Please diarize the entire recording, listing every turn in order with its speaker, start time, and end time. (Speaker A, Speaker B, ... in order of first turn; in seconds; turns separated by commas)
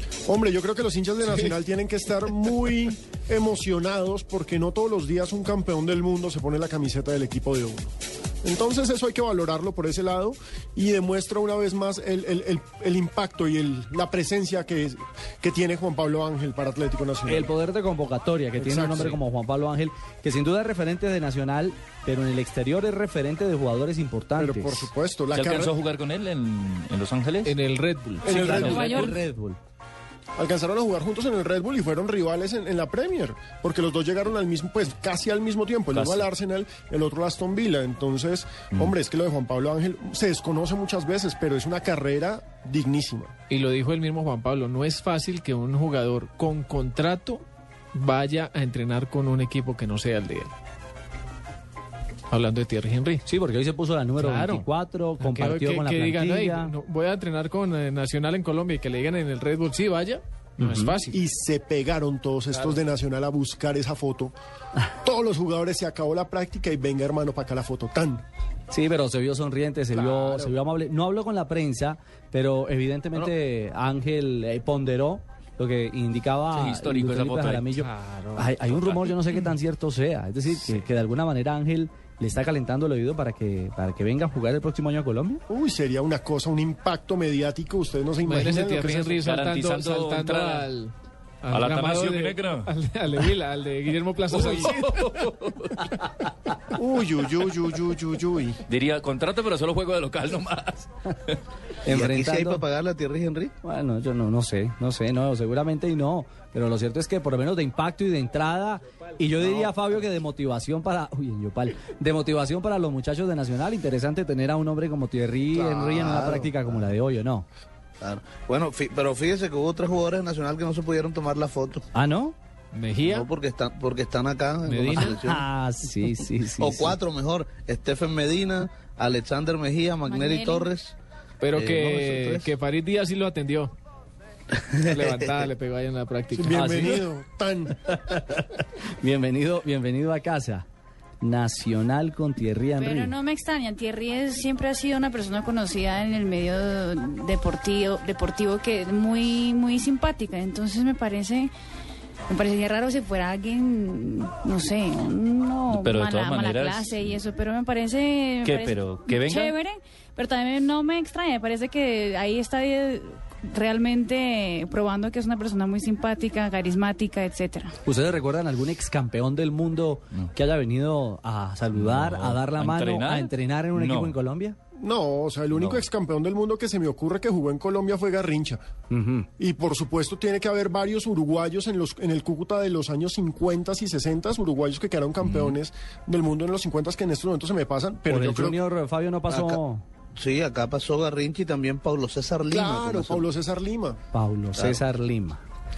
Speaker A: 0.3-7.9, Speaker A: 8.4-17.5, Speaker B: 17.3-24.9, Speaker A: 18.6-19.2, Speaker A: 24.4-25.8, Speaker C: 25.3-27.5, Speaker D: 27.4-28.4, Speaker A: 28.2-28.9, Speaker B: 28.2-29.6, Speaker E: 28.3-29.1, Speaker C: 28.4-29.1, Speaker A: 30.4-43.3, Speaker C: 35.9-36.3, Speaker D: 43.5-47.4, Speaker D: 47.9-50.5, Speaker D: 52.3-53.2, Speaker B: 53.2-56.7, Speaker D: 54.2-54.7, Speaker D: 55.2-61.2, Speaker B: 60.6-60.9, Speaker A: 61.0-64.3, Speaker A: 65.0-68.2, Speaker B: 68.7-85.4, Speaker D: 70.1-70.3, Speaker C: 76.5-77.8, Speaker D: 77.9-78.5, Speaker C: 78.8-79.2, Speaker C: 80.5-80.8, Speaker A: 85.5-89.2, Speaker D: 88.2-95.3, Speaker C: 89.2-90.7, Speaker C: 91.5-92.7, Speaker C: 94.3-95.9, Speaker A: 96.8-98.6, Speaker C: 98.7-101.4, Speaker B: 101.8-102.6, Speaker F: 101.9-103.5, Speaker B: 103.6-117.5, Speaker F: 109.4-109.8, Speaker F: 115.5-116.9, Speaker F: 118.0-121.8, Speaker B: 121.9-122.3, Speaker D: 122.7-123.3, Speaker F: 123.0-125.5, Speaker D: 124.7-125.2, Speaker B: 124.9-127.0, Speaker F: 126.6-130.9, Speaker E: 130.1-130.7, Speaker D: 131.4-133.7, Speaker F: 131.5-132.5, Speaker F: 134.6-135.5, Speaker D: 134.8-136.7, Speaker A: 136.4-137.8, Speaker B: 136.5-137.0, Speaker B: 137.8-140.6, Speaker B: 141.2-143.1, Speaker E: 142.8-151.5, Speaker E: 152.3-167.7, Speaker C: 155.7-157.2, Speaker C: 158.4-159.6, Speaker B: 167.8-174.6, Speaker C: 171.7-174.2, Speaker A: 174.8-178.6, Speaker C: 175.5-175.8, Speaker B: 178.9-179.3, Speaker A: 179.4-188.6, Speaker C: 185.2-185.5, Speaker B: 188.1-189.8, Speaker F: 189.3-189.6, Speaker F: 190.1-193.2, Speaker A: 192.5-194.0, Speaker B: 194.1-195.4, Speaker F: 194.6-194.8